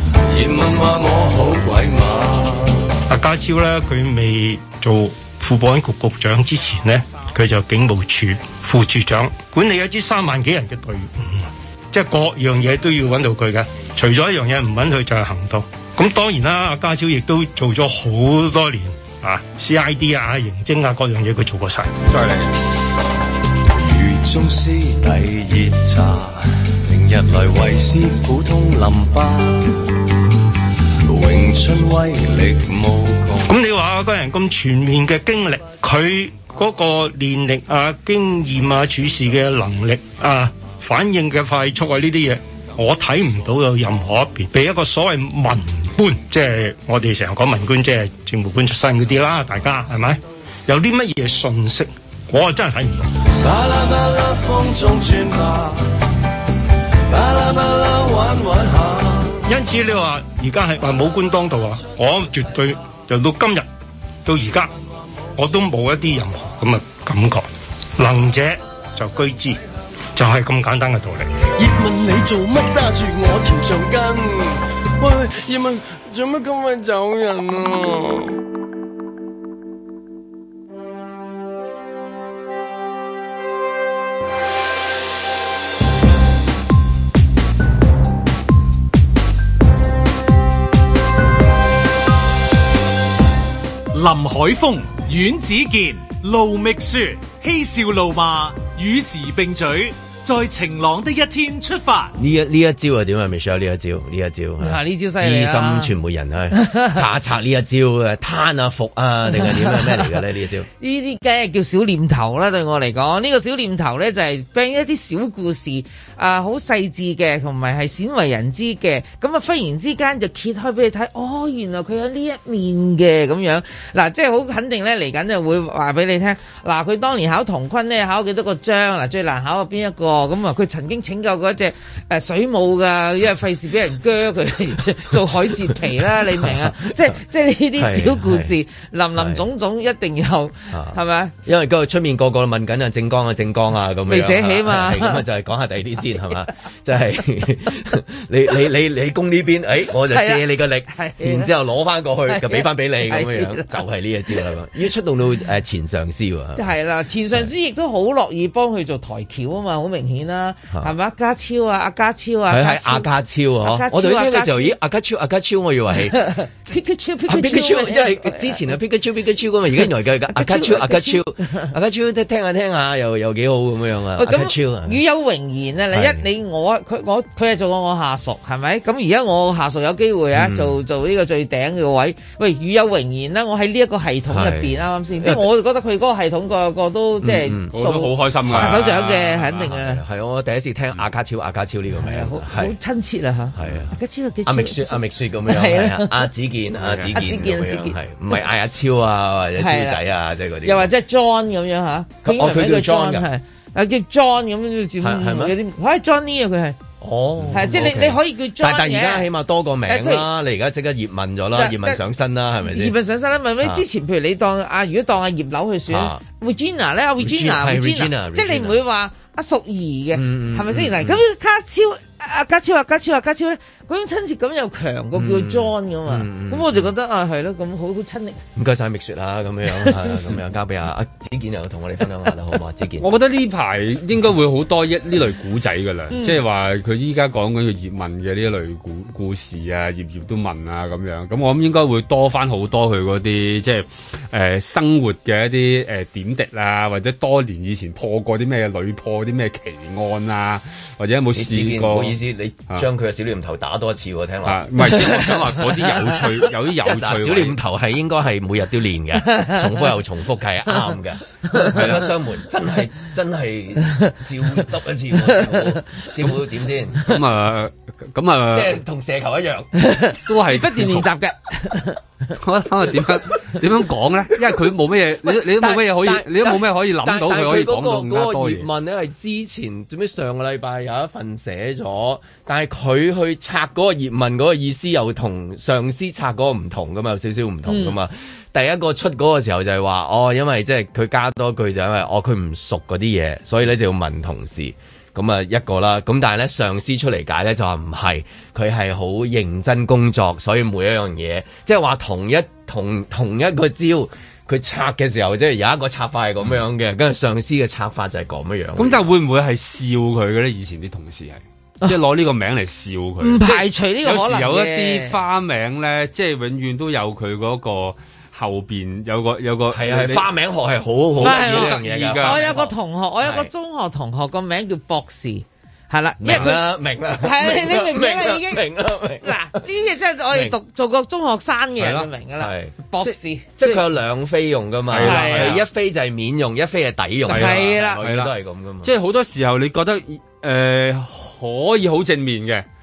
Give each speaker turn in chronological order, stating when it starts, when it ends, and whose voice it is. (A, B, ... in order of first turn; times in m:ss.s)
0:00.3-0:02.8 A
0:03.1-0:21.9 B
0:22.1-0:22.5 C
0:23.7-0:29.9 A
0:31.0-0:33.5 A
0:33.4-0:53.0 B
0:53.4-0:55.8 A
0:57.1-0:59.4 A
0:59.4-1:03.7 B
1:04.2-1:04.7 B
1:05.4-1:07.4 B
1:08.0-1:09.6 B
1:10.1-1:11.3 B
1:11.6-1:18.4 A
1:33.9-1:42.1 D
1:42.2-1:50.7 E
1:44.6-1:45.9 F
1:46.5-1:46.9 F
1:49.6-1:49.9 F
1:50.8-2:21.3 F
2:16.1-2:16.9 E
2:17.8-2:18.5 E
2:19.2-2:19.4 E
2:20.7-2:36.7 E
2:24.1-2:25.2 F
2:30.1-2:31.5 F
2:32.3-2:33.8 F
2:36.6-2:43.1 F
2:42.5-2:46.3 E
2:43.6-2:44.8 F
2:46.1-2:48.6 F
2:47.3-2:55.0 E
2:50.3-2:51.7 F
2:54.2-3:10.0 F
2:55.9-2:56.2 E
3:00.3-3:00.8 E
3:04.3-3:05.4 E
3:07.2-3:07.7 E
3:07.7-3:09.7 C
3:08.5-3:08.8 E
3:09.7-3:12.7 E
3:12.0-3:16.3 F
3:13.5-3:20.9 E
3:16.8-3:17.2 C
3:17.1-3:18.0 F
3:19.6-3:20.0 F
3:20.6-3:26.8 F
3:22.2-3:23.3 E
3:25.0-3:25.5 E
3:27.0-3:33.0 E
3:27.5-3:29.3 F
3:29.9-3:30.3 F
3:31.5-3:32.0 F
3:32.6-3:48.4 F
3:35.9-3:36.2 E
3:37.2-3:38.8 E
3:40.1-3:41.2 E
3:45.1-3:46.9 E
3:48.6-3:53.1 E
3:53.0-4:12.9 C
3:56.1-3:56.4 F
4:11.3-4:15.3 E
4:14.4-4:17.6 C
4:16.8-4:27.2 E
4:21.7-4:22.1 C
4:27.0-4:28.8 C
4:28.5-4:29.7 E
4:29.8-4:32.0 F
4:30.3-4:31.1 C
4:32.4-4:38.7 C
4:35.5-5:09.1 E
4:47.6-4:48.0 F
5:08.8-5:20.3 C
5:13.2-5:15.2 F
5:19.7-5:23.5 E
5:21.2-5:22.4 C
5:21.2-5:28.6 F
5:26.2-5:29.4 E
5:29.2-5:33.8 F
5:31.8-5:32.1 C
5:32.4-5:32.7 E
5:33.6-5:38.9 E
5:34.9-5:35.7 C
5:35.0-5:35.6 F
5:37.3-5:38.0 F
5:37.3-5:42.6 C